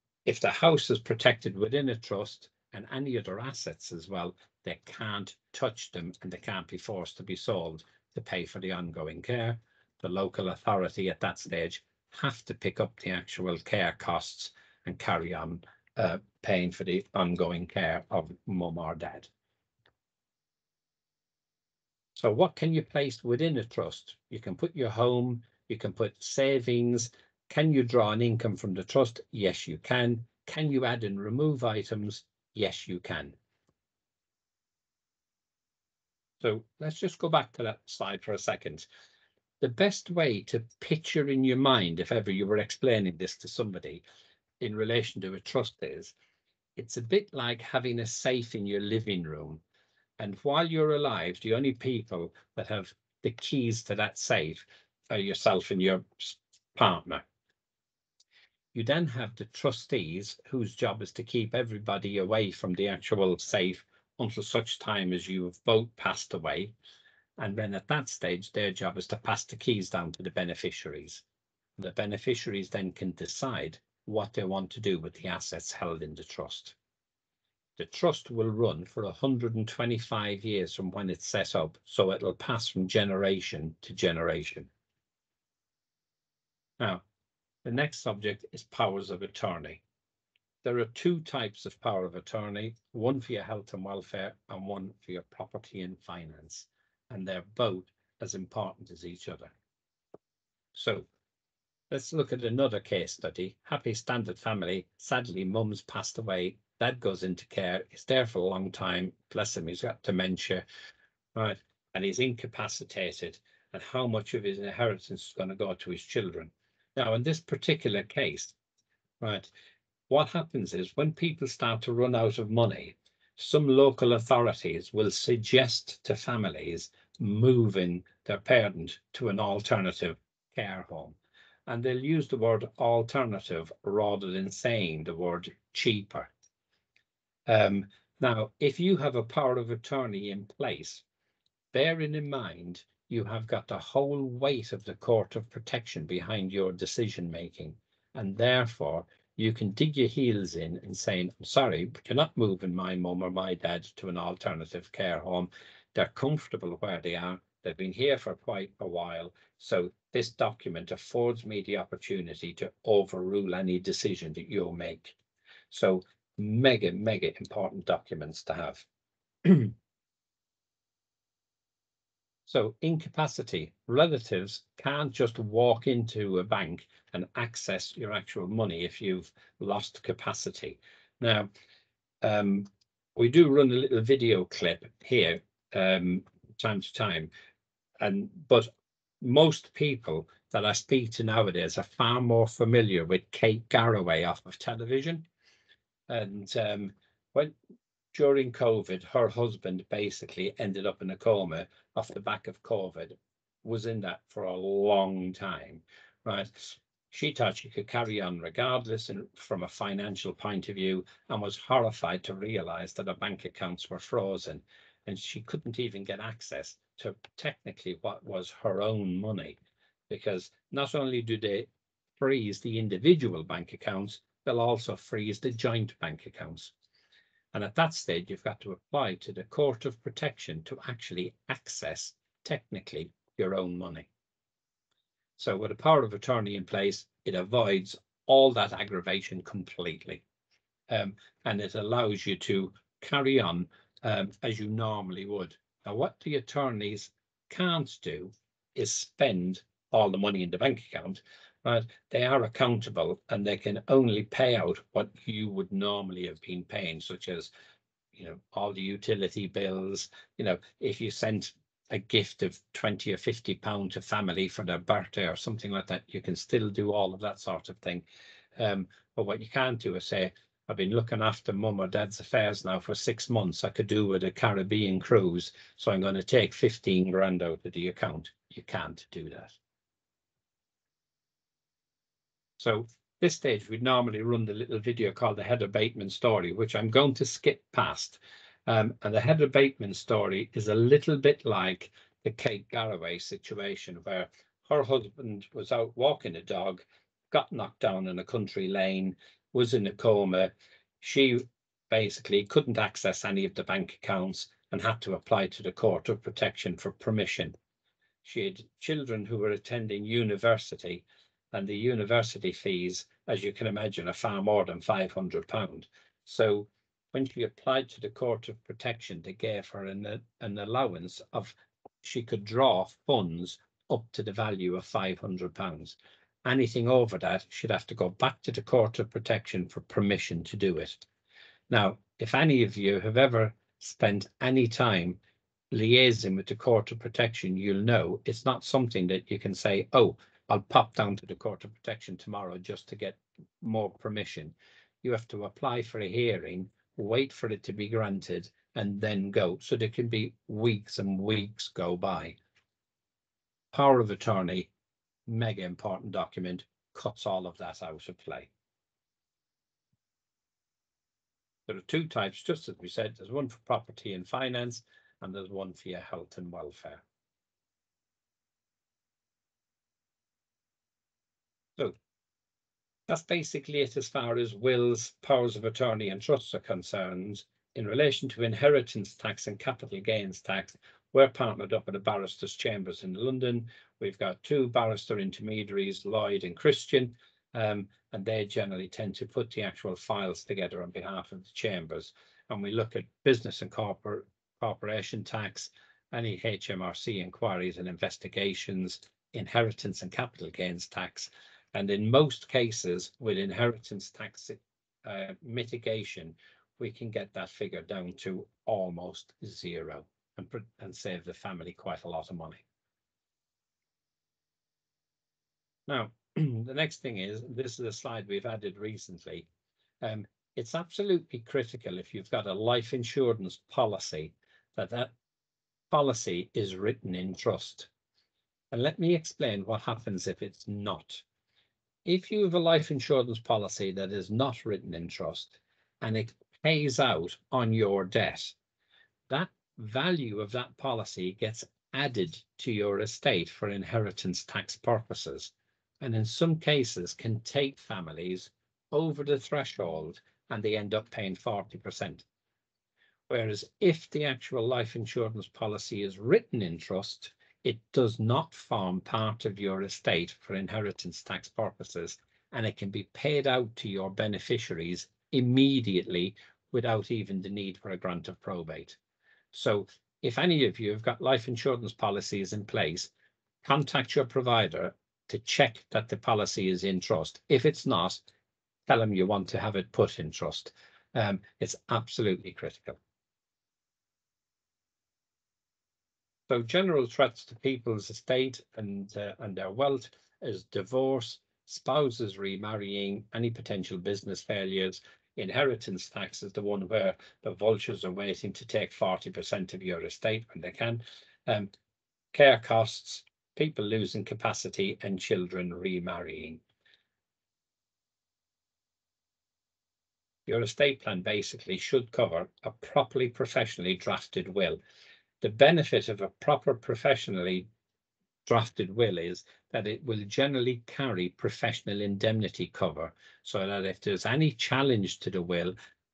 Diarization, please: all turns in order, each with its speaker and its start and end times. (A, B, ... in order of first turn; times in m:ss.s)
0:00.2-0:19.3 A
0:22.2-0:33.3 A
0:36.4-0:38.8 A
0:39.6-0:44.0 A
0:44.6-0:46.1 A
0:46.8-0:49.6 A
0:50.2-0:57.2 A
0:58.7-1:06.7 A
1:07.4-1:11.2 A
1:11.8-1:16.7 A
1:17.8-1:24.7 A
1:27.6-1:29.8 A
1:30.6-1:39.5 A
1:40.7-1:41.0 A
1:41.9-1:50.6 A
1:51.3-1:58.5 A
1:59.2-1:59.5 A
2:00.1-2:11.2 A
2:11.7-2:16.3 A
2:17.5-2:21.0 A
2:21.7-2:45.1 A
2:45.7-2:48.8 A
2:49.4-2:49.7 A
2:52.5-3:01.5 A
3:02.2-3:07.3 A
3:08.0-3:15.2 A
3:16.1-3:17.5 A
3:18.1-3:39.6 A
3:40.1-3:41.7 A
3:42.2-3:46.7 A
3:47.5-3:54.1 A
3:55.4-4:00.2 A
4:00.9-4:17.5 A
4:18.1-4:28.0 A
4:28.6-4:39.6 A
4:42.6-5:07.5 A
5:08.2-5:31.0 A
5:31.7-5:35.2 A
5:35.7-5:52.4 A
5:53.7-5:54.7 A
5:55.3-5:58.5 A
6:01.7-6:07.0 A
6:13.1-6:52.6 A
6:55.9-6:59.5 A
7:00.0-7:05.1 A
7:05.9-7:07.9 A
7:08.7-7:11.2 A
7:12.0-7:18.5 A
7:19.3-7:32.2 A
7:33.3-7:49.0 A
7:49.5-7:53.1 A
7:53.6-7:58.2 A
7:58.9-8:03.0 A
8:06.5-8:21.7 A
8:22.3-8:26.6 A
8:30.5-8:34.8 A
8:35.4-8:37.7 A
8:38.4-8:45.7 A